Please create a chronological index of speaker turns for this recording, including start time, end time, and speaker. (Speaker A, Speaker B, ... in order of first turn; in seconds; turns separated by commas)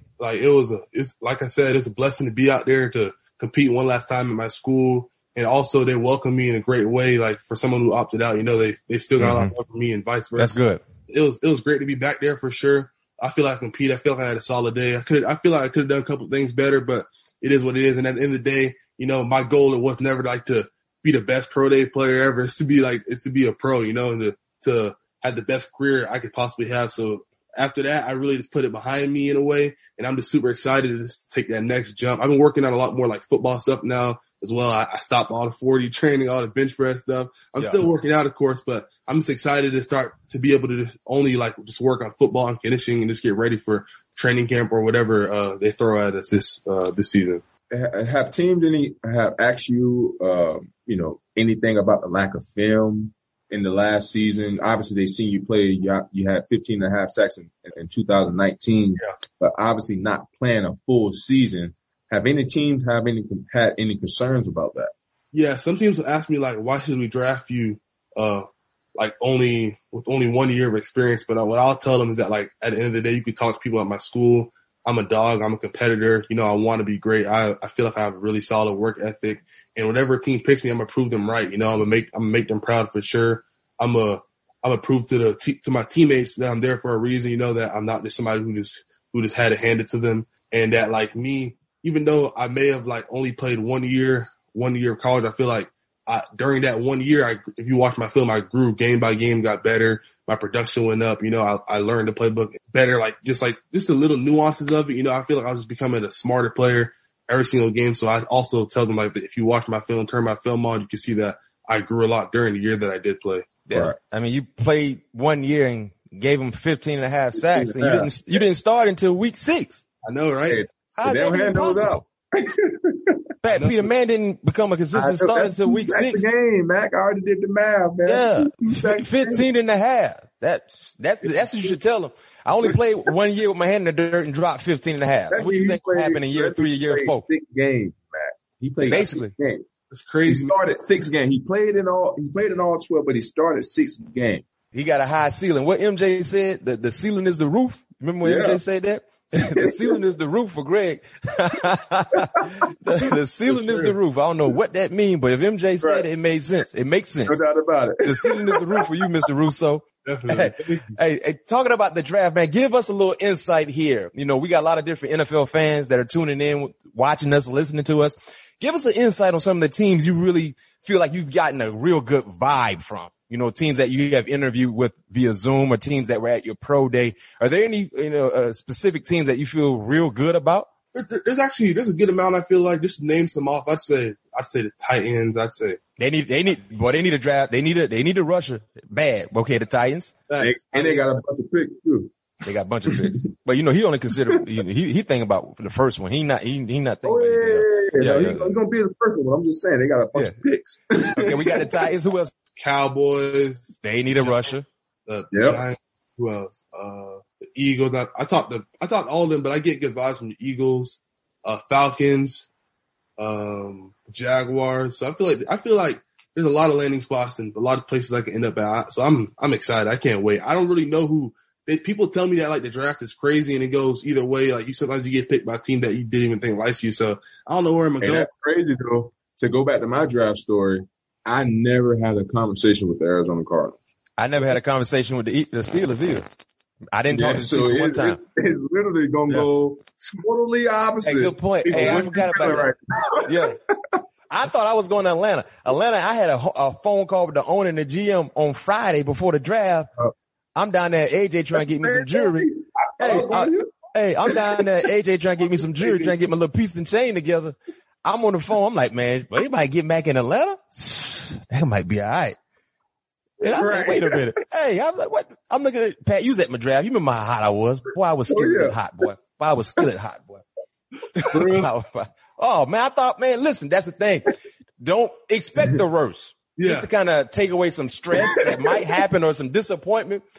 Speaker A: 0.2-47.4, Speaker B: 9.2-9.5, Speaker B: 10.4-10.8, Speaker B: 37.6-37.8, Speaker C: 47.7-64.9, Speaker A: 65.3-113.5, Speaker B: 113.7-119.8, Speaker C: 117.4-118.4, Speaker A: 120.0-120.6, Speaker C: 120.5-123.2, Speaker B: 121.0-122.0, Speaker B: 123.4-126.2, Speaker A: 123.5-123.9, Speaker C: 124.9-129.4, Speaker B: 128.1-137.2, Speaker C: 135.3-139.7, Speaker B: 138.9-139.3, Speaker A: 139.9-140.6, Speaker C: 140.2-144.4, Speaker B: 144.7-157.4, Speaker C: 148.2-148.6, Speaker C: 149.5-150.0, Speaker A: 153.5-153.9, Speaker C: 155.8-156.1, Speaker C: 157.2-158.8, Speaker B: 158.0-180.7, Speaker A: 160.0-160.9, Speaker A: 180.9-185.8, Speaker B: 186.0-190.1, Speaker A: 190.3-191.0, Speaker C: 190.4-192.1, Speaker B: 192.4-198.5, Speaker C: 197.0-201.7, Speaker B: 201.1-202.3, Speaker A: 202.6-204.5, Speaker B: 203.8-204.7, Speaker A: 205.1-212.5, Speaker C: 205.3-205.6, Speaker A: 213.2-228.3, Speaker C: 228.0-233.8, Speaker B: 234.2-236.2, Speaker B: 236.9-238.2, Speaker C: 237.1-244.0, Speaker B: 241.0-242.7, Speaker A: 241.6-242.3, Speaker B: 243.2-243.6, Speaker B: 244.3-249.9, Speaker B: 250.6-262.4, Speaker C: 251.6-253.7, Speaker C: 254.3-254.7, Speaker C: 263.4-264.3, Speaker B: 263.4-270.4, Speaker C: 268.3-268.8, Speaker B: 271.1-280.2, Speaker A: 271.3-271.7, Speaker A: 276.6-276.9